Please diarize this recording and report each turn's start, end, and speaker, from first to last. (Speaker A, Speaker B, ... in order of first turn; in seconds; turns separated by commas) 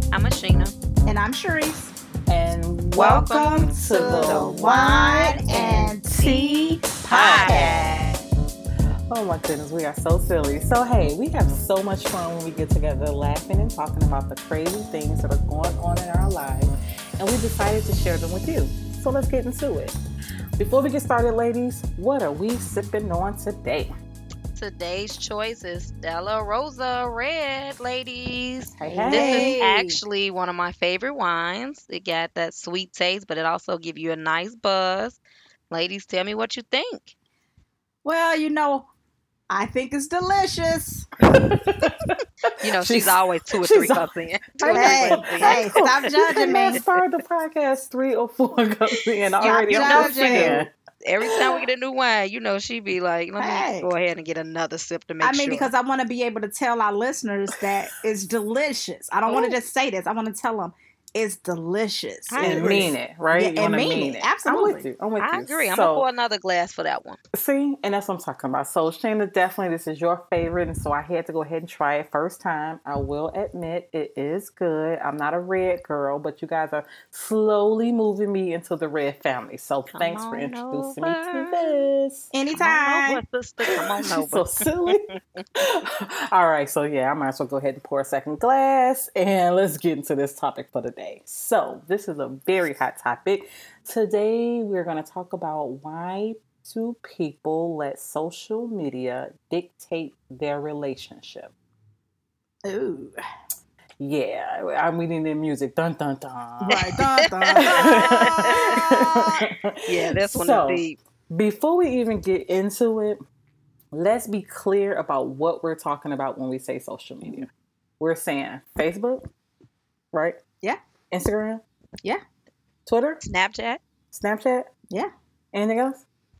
Speaker A: 0.1-0.7, Speaker B: 1.1-1.9, Speaker C: 2.3-7.8, Speaker A: 3.0-8.2, Speaker B: 3.8-7.9, Speaker C: 9.1-19.9, Speaker C: 20.6-23.9, Speaker A: 24.5-35.2, Speaker C: 28.8-29.6, Speaker B: 28.8-30.0, Speaker A: 35.7-37.1, Speaker B: 38.0-38.9, Speaker B: 39.5-41.1, Speaker C: 41.4-44.1, Speaker A: 42.6-47.0, Speaker C: 44.6-50.7, Speaker B: 44.7-46.8, Speaker A: 49.4-55.7, Speaker B: 49.4-50.7, Speaker B: 53.4-53.9, Speaker B: 55.2-64.8, Speaker A: 59.3-59.5, Speaker A: 62.3-62.9, Speaker C: 62.4-66.0, Speaker A: 65.2-67.2, Speaker C: 67.3-82.3, Speaker A: 79.9-81.9, Speaker B: 82.3-83.2, Speaker A: 82.5-85.4, Speaker C: 84.1-101.5, Speaker B: 102.6-103.2, Speaker C: 104.0-106.8, Speaker B: 106.6-109.4, Speaker A: 106.7-108.7, Speaker C: 107.6-113.2, Speaker A: 109.9-111.0, Speaker C: 113.9-117.5, Speaker C: 118.0-119.2, Speaker C: 120.1-120.4, Speaker C: 121.1-121.6, Speaker C: 122.8-123.2, Speaker A: 123.2-123.8, Speaker C: 124.1-124.7, Speaker C: 125.5-126.0